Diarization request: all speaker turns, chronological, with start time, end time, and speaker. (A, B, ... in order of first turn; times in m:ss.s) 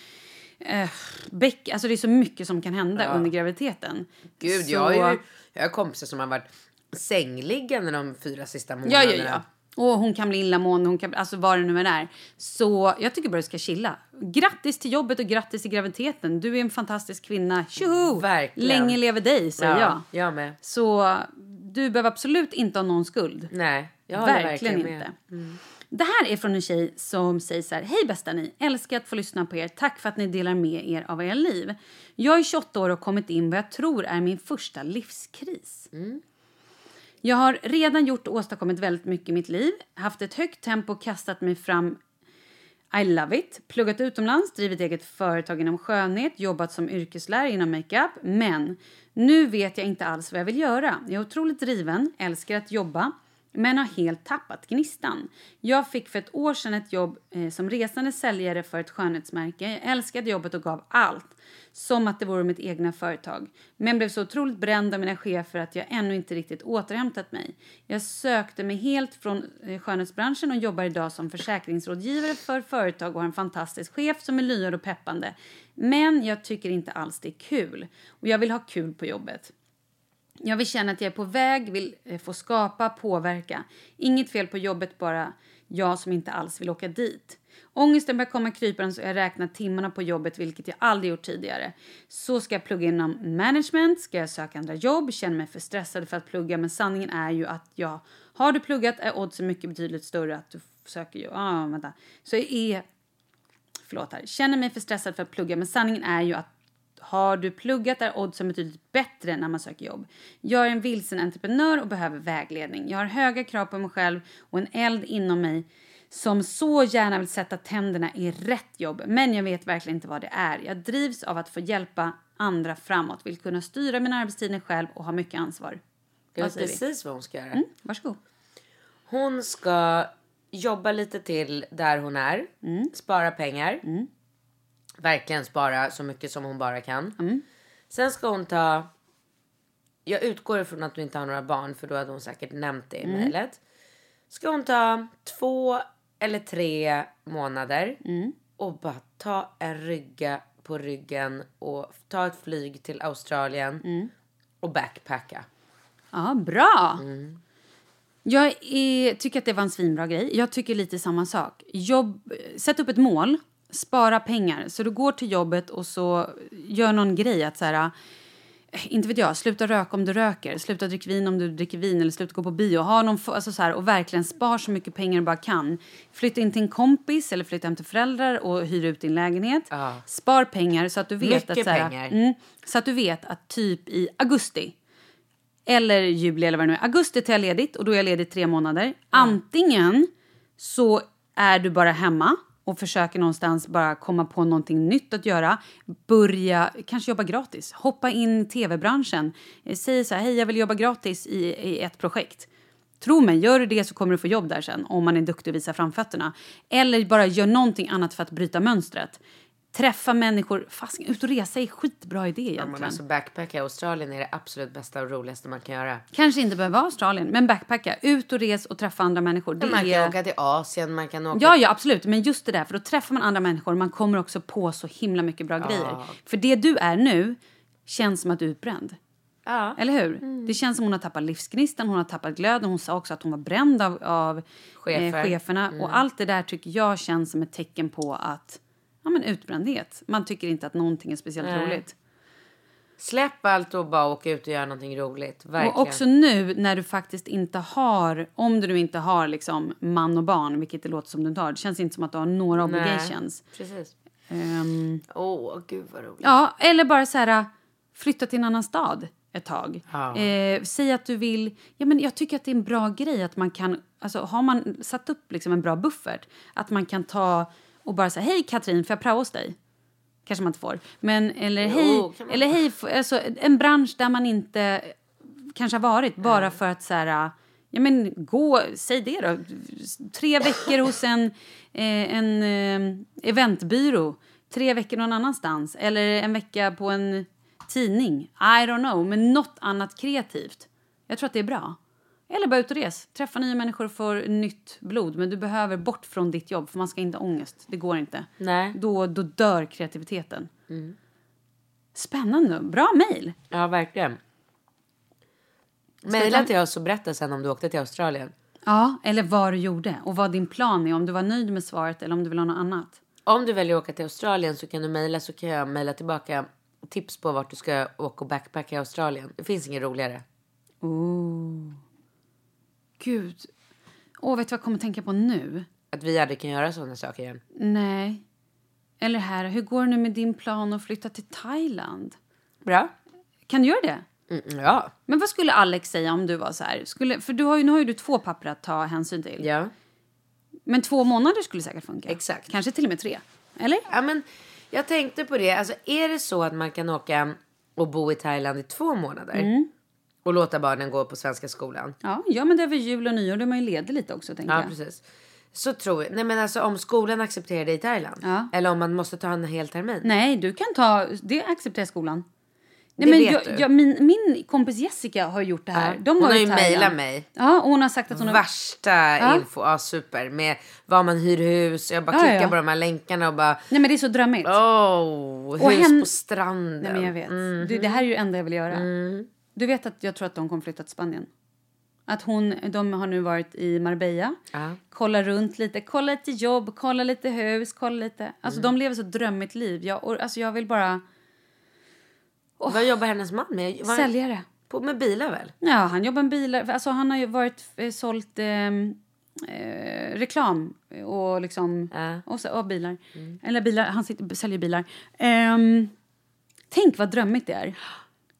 0:00.6-0:05.2 A
0:03.0-0:03.3 B
0:04.4-0:09.4 B
0:08.8-0:20.0 A
0:17.8-0:19.0 B
0:19.6-0:20.6 B
0:20.6-0:23.5 A
0:23.5-0:25.6 B
0:24.1-0:25.1 A
0:25.9-0:35.9 A
0:35.9-0:36.2 B
0:37.2-0:42.0 A
0:42.9-1:19.5 A
1:20.4-1:42.8 A
1:43.8-1:46.5 A
1:47.0-2:05.8 A
2:06.4-2:07.6 B
2:06.4-2:06.8 A
2:07.5-2:08.2 A
2:09.1-2:13.8 B
2:12.6-2:12.9 A
2:15.0-2:17.2 B
2:17.9-2:18.9 B
2:20.0-2:23.6 B
2:23.0-2:23.3 A
2:24.3-2:28.0 B
2:28.0-2:28.3 A
2:28.6-2:33.8 B
2:33.8-2:34.1 A
2:34.6-2:35.4 B
2:36.1-2:37.0 A
2:37.0-2:37.4 B
2:38.2-2:47.9 A
2:48.7-3:04.7 A
2:59.7-3:00.0 B
3:01.2-3:02.1 B
3:05.7-3:22.5 A
3:23.0-3:29.2 A
3:29.7-3:33.0 A
3:32.6-3:36.0 B
3:36.1-3:40.1 A
3:39.6-3:41.6 B
3:41.3-3:49.0 A
3:45.6-3:46.1 B
3:49.4-3:50.5 B
3:49.8-4:01.9 A
3:54.8-3:56.0 B
4:01.4-4:01.8 B
4:03.0-4:06.0 B
4:05.6-4:13.4 A
4:12.6-4:13.9 B
4:14.3-4:15.0 A
4:15.1-4:16.3 B
4:16.2-4:29.5 A
4:19.9-4:20.3 B
4:30.2-4:34.9 A
4:31.6-4:32.5 B
4:35.5-4:51.8 A
4:36.2-4:36.5 B
4:52.3-5:00.5 A
4:58.4-4:58.8 B
5:00.7-5:01.0 B
5:01.9-5:03.4 A
5:03.5-5:04.2 B
5:06.0-5:08.3 B
5:06.1-5:06.5 A
5:08.6-5:13.0 A
5:13.2-5:20.2 B
5:20.8-5:21.8 A
5:23.0-5:23.5 A
5:24.2-5:25.6 A
5:25.9-5:27.4 B
5:27.6-5:28.2 A
5:29.0-5:32.2 A
5:32.6-5:32.9 B
5:33.5-5:34.0 A
5:34.3-5:34.9 B
5:35.1-5:39.5 A
5:39.4-5:39.7 B
5:40.7-5:43.8 A
5:42.1-5:42.5 B
5:43.9-5:49.5 B
5:49.3-5:49.7 A
5:50.2-5:51.9 B
5:52.0-5:54.7 A
5:54.5-5:55.0 B
5:55.5-6:00.1 B
5:58.2-5:58.5 A
6:00.0-6:02.2 A
6:03.0-6:08.4 A
6:03.0-6:03.6 B
6:05.7-6:07.2 B
6:08.1-6:13.6 B
6:09.2-6:09.4 A
6:12.1-6:12.6 A
6:13.7-6:14.5 A
6:14.4-6:18.0 B
6:15.6-6:16.1 A
6:16.8-6:18.8 A
6:18.7-6:19.3 B
6:19.6-6:21.3 A
6:22.1-6:24.4 A
6:24.5-6:24.8 B
6:24.9-6:31.0 A
6:32.6-6:32.8 A
6:32.7-6:34.1 B
6:33.8-6:34.4 A
6:34.7-6:35.5 B
6:35.6-6:45.9 A
6:41.9-6:42.2 B
6:46.7-6:47.8 A